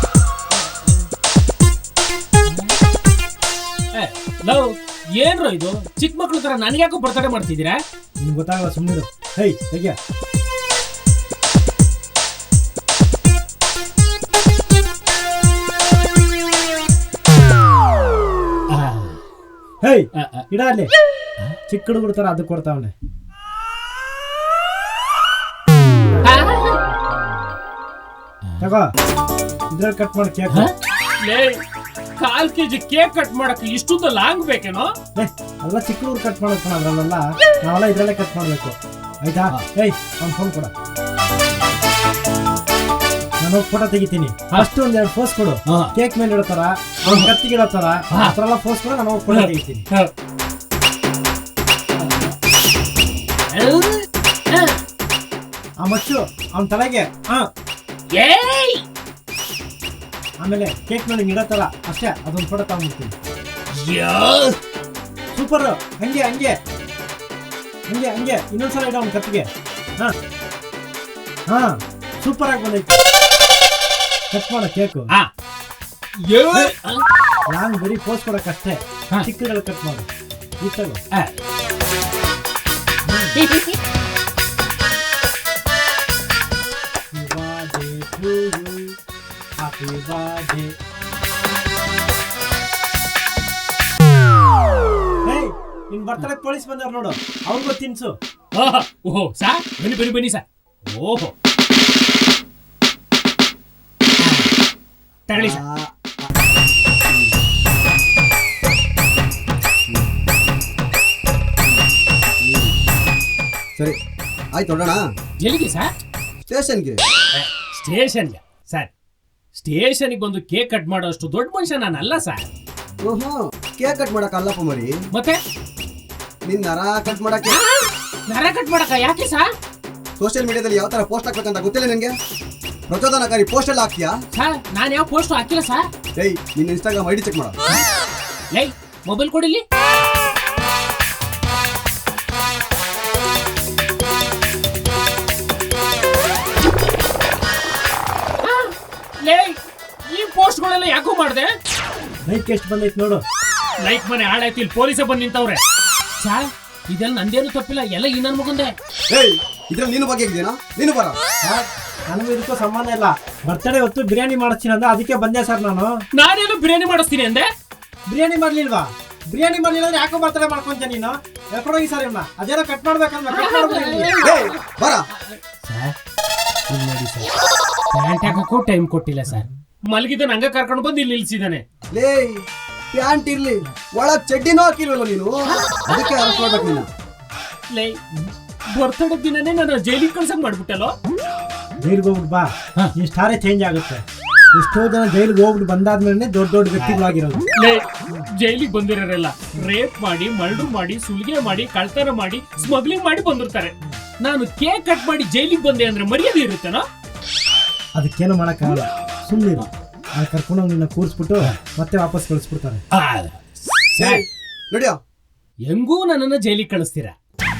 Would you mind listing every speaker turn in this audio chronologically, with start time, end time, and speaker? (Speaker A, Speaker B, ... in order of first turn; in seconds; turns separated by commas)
Speaker A: 0.5-1.0, Speaker A: 2.5-2.8, Speaker A: 3.9-7.8, Speaker B: 8.2-10.0, Speaker A: 18.7-19.2, Speaker B: 19.8-20.9, Speaker A: 20.1-20.4, Speaker B: 21.7-22.9, Speaker A: 26.2-26.8, Speaker B: 28.6-28.9, Speaker B: 29.7-30.7, Speaker A: 30.5-31.6, Speaker A: 32.2-34.9, Speaker B: 35.1-40.7, Speaker B: 43.4-49.9, Speaker A: 45.7-45.9, Speaker A: 47.0-47.3, Speaker A: 49.3-50.1, Speaker A: 51.9-52.3, Speaker A: 53.5-54.8, Speaker B: 55.8-57.5, Speaker A: 58.1-58.8, Speaker B: 60.4-63.1, Speaker A: 63.7-64.6, Speaker B: 65.3-66.5, Speaker B: 67.9-70.1, Speaker B: 71.5-73.0, Speaker B: 74.3-75.1, Speaker A: 76.2-77.0, Speaker B: 77.5-80.1, Speaker B: 80.6-81.0, Speaker A: 81.1-81.4, Speaker B: 83.1-83.4, Speaker A: 83.3-83.8, Speaker B: 87.1-89.0, Speaker B: 89.6-90.7, Speaker B: 95.2-98.1, Speaker A: 98.5-101.3, Speaker A: 104.2-104.5, Speaker A: 105.3-105.6, Speaker C: 105.3-105.9, Speaker C: 107.1-107.3, Speaker C: 112.4-112.7, Speaker C: 114.5-115.0, Speaker A: 115.4-115.9, Speaker C: 116.5-117.0, Speaker A: 117.3-118.9, Speaker A: 119.5-122.5, Speaker C: 123.0-124.9, Speaker A: 125.1-125.4, Speaker C: 126.4-127.6, Speaker A: 127.5-129.5, Speaker C: 130.2-132.2, Speaker C: 132.9-134.1, Speaker A: 134.3-135.9, Speaker C: 136.2-137.6, Speaker A: 138.5-139.6, Speaker A: 148.4-151.5, Speaker B: 152.2-153.2, Speaker A: 153.8-155.6, Speaker A: 156.2-158.7, Speaker C: 159.1-161.2, Speaker B: 161.4-166.0, Speaker A: 166.1-167.5, Speaker B: 168.1-174.1, Speaker A: 173.3-174.4, Speaker C: 174.2-175.1, Speaker A: 175.1-175.9, Speaker A: 176.7-177.3, Speaker A: 177.9-181.6, Speaker C: 181.9-186.9, Speaker A: 187.7-188.0, Speaker A: 188.7-190.9, Speaker B: 191.8-197.5, Speaker A: 197.5-206.8, Speaker B: 207.9-212.8, Speaker A: 212.9-213.4, Speaker A: 213.9-214.2, Speaker C: 214.0-215.0, Speaker A: 215.7-217.2